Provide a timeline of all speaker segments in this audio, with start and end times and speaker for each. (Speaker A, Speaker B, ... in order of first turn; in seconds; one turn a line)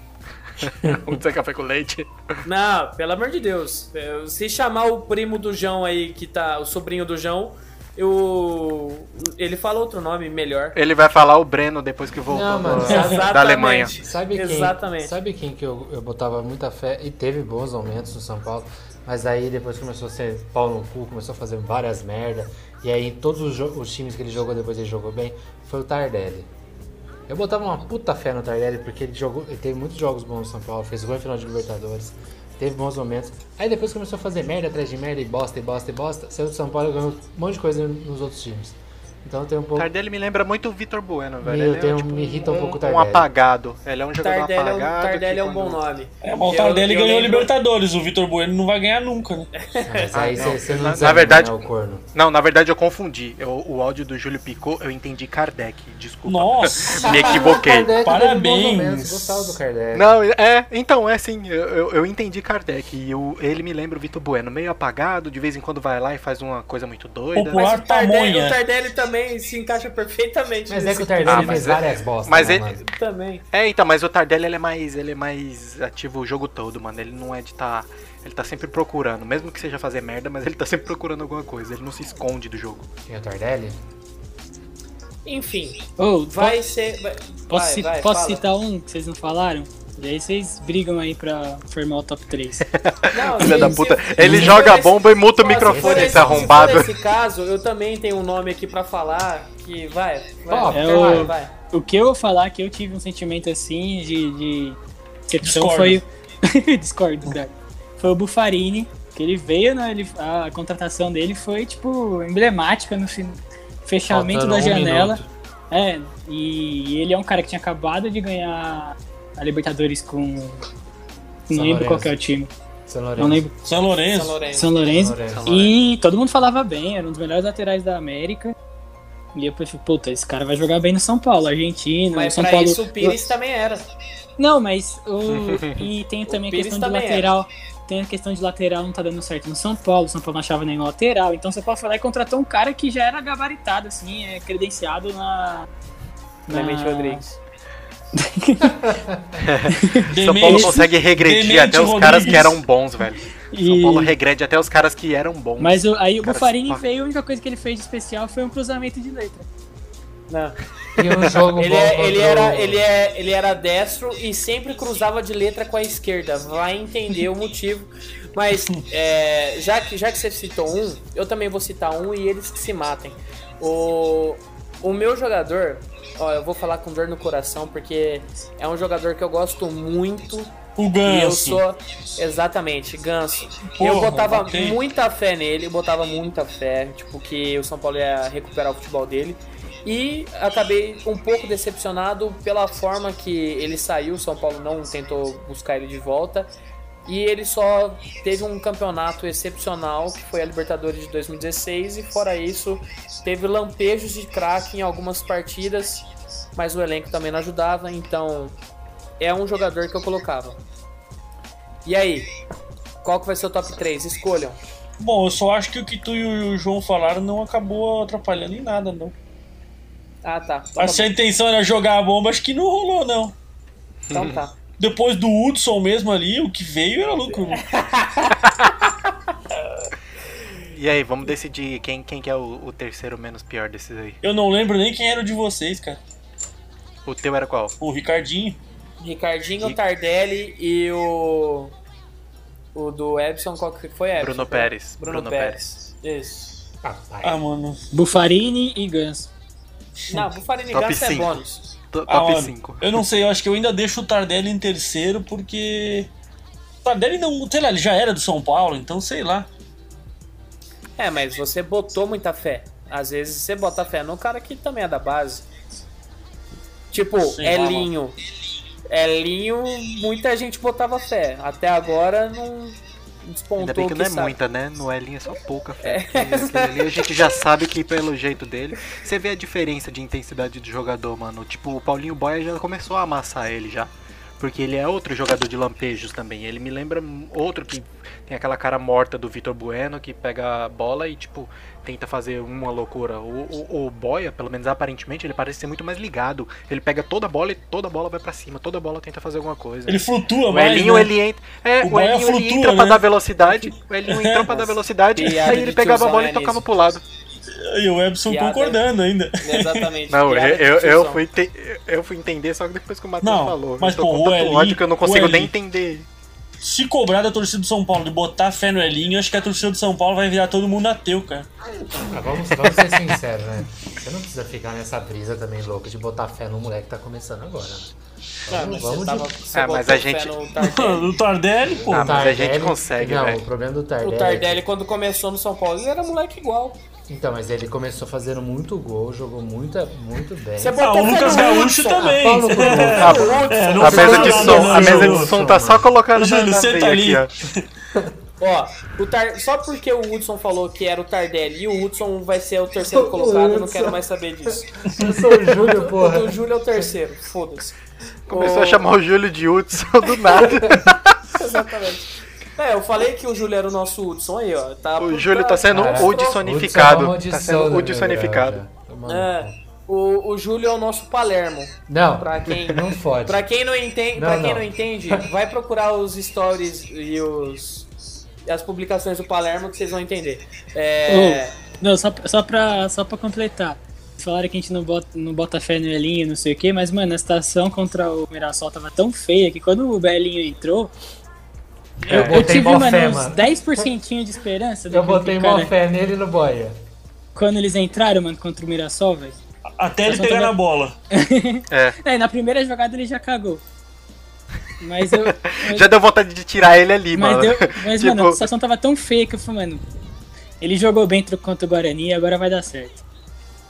Speaker A: 0.6-2.2
Speaker B: 2.4-10.8
Speaker A: 10.7-14.0
Speaker C: 12.3-13.3
Speaker B: 12.8-15.1
Speaker C: 14.0-26.5
Speaker C: 27.3-39.9
Speaker A: 39.8-45.8
Speaker C: 41.4-43.3
Speaker B: 44.2-47.5
Speaker D: 46.2-49.5
Speaker B: 49.6-50.4
Speaker C: 49.8-52.0
Speaker A: 50.1-57.9
Speaker D: 56.2-59.5
Speaker B: 57.0-57.4
Speaker C: 57.0-60.2
Speaker A: 59.9-67.7
Speaker D: 67.3-68.6
Speaker B: 67.5-71.7
Speaker C: 70.7-72.8
Speaker A: 71.2-72.8
Speaker B: 72.8-73.4
Speaker A: 73.5-82.9
Speaker C: 83.1-83.8
Speaker B: 85.2-88.4
Speaker E: 86.0-86.6
Speaker E: 87.5-92.6
Speaker A: 92.7-96.9
Speaker B: 93.1-101.5
Speaker C: 94.2-94.6
Speaker C: 95.5-96.7
Speaker C: 100.5-101.3
Speaker E: 100.7-120.7
Speaker D: 105.4-106.0
Speaker C: 114.1-115.3
Speaker E: 121.5-122.5
Speaker C: 121.5-122.2
Speaker C: 122.9-123.5
Speaker E: 123.2-123.5
Speaker D: 123.6-124.4
Speaker B: 124.1-124.8
Speaker E: 124.5-128.5
Speaker C: 124.8-125.5
Speaker A: 125.2-125.8
Speaker E: 129.3-133.2
Speaker B: 132.1-133.8
Speaker E: 134.4-145.7
Speaker A: 135.2-135.8
Speaker B: 136.3-137.3
Speaker E: 146.5-147.2
Speaker B: 146.5-147.4
Speaker E: 148.2-149.0
Speaker C: 148.9-149.2
Speaker A: 149.4-156.8
Speaker E: 149.7-150.8
Speaker D: 150.1-152.6
Speaker E: 153.5-154.1
Speaker E: 155.6-159.5
Speaker B: 160.3-160.5
Speaker C: 160.9-162.8
Speaker B: 161.6-196.5
Speaker D: 180.8-181.6
Speaker D: 183.7-184.8
Speaker B: 197.1-206.0
Speaker B: 206.6-208.5
Speaker B: 209.2-210.6
Speaker B: 211.8-212.3
Speaker B: 213.0-214.6
Speaker D: 215.0-219.1
Speaker B: 220.2-221.1
Speaker D: 220.8-223.3
Speaker B: 224.1-224.5
Speaker D: 224.8-227.7
Speaker B: 227.7-228.4
Speaker A: 230.7-234.2
Speaker D: 234.2-236.0
Speaker A: 237.1-237.7
Speaker D: 237.8-238.6
Speaker B: 239.0-241.7
Speaker B: 242.7-246.4
Speaker A: 244.2-245.6
Speaker C: 246.8-247.4
Speaker D: 247.2-247.8
Speaker E: 247.9-249.3
Speaker B: 250.1-251.6
Speaker A: 250.7-252.8
Speaker D: 252.1-256.1
Speaker D: 256.8-259.5
Speaker B: 261.0-265.4
Speaker B: 266.9-268.2
Speaker D: 267.4-267.9
Speaker B: 268.9-274.3
Speaker A: 273.6-307.0
Speaker B: 275.8-277.0
Speaker D: 299.9-301.1
Speaker D: 301.8-303.1
Speaker D: 304.1-304.5
Speaker B: 305.1-306.6
Speaker D: 307.6-309.9
Speaker B: 308.2-308.8
Speaker B: 309.4-311.2
Speaker A: 310.1-316.1
Speaker D: 313.2-315.5
Speaker D: 316.6-321.5
Speaker C: 322.0-327.9
Speaker C: 328.5-329.3
Speaker B: 328.5-331.1
Speaker A: 329.5-330.4
Speaker D: 330.6-332.2
Speaker C: 331.8-334.6
Speaker A: 331.9-333.4
Speaker B: 334.0-336.8
Speaker C: 337.1-345.9
Speaker B: 340.6-345.0
Speaker D: 340.8-345.3
Speaker A: 342.8-347.3
Speaker D: 346.1-347.6
Speaker B: 348.4-354.7
Speaker C: 352.9-356.8
Speaker B: 355.5-357.8
Speaker A: 358.3-361.1
Speaker B: 358.3-358.9
Speaker B: 361.4-366.4
Speaker A: 365.0-368.6
Speaker C: 365.7-369.6
Speaker B: 369.1-377.9
Speaker C: 371.9-373.4
Speaker C: 374.1-375.2
Speaker B: 378.4-381.6
Speaker E: 381.1-390.9
Speaker E: 392.1-395.7
Speaker D: 392.1-392.4
Speaker C: 392.1-393.9
Speaker C: 394.9-396.8
Speaker E: 397.3-399.4
Speaker D: 399.8-400.9
Speaker E: 400.1-400.6
Speaker E: 401.1-403.6
Speaker A: 401.7-401.9
Speaker E: 404.8-405.9
Speaker A: 405.1-408.5
Speaker E: 407.1-409.8
Speaker E: 410.6-413.0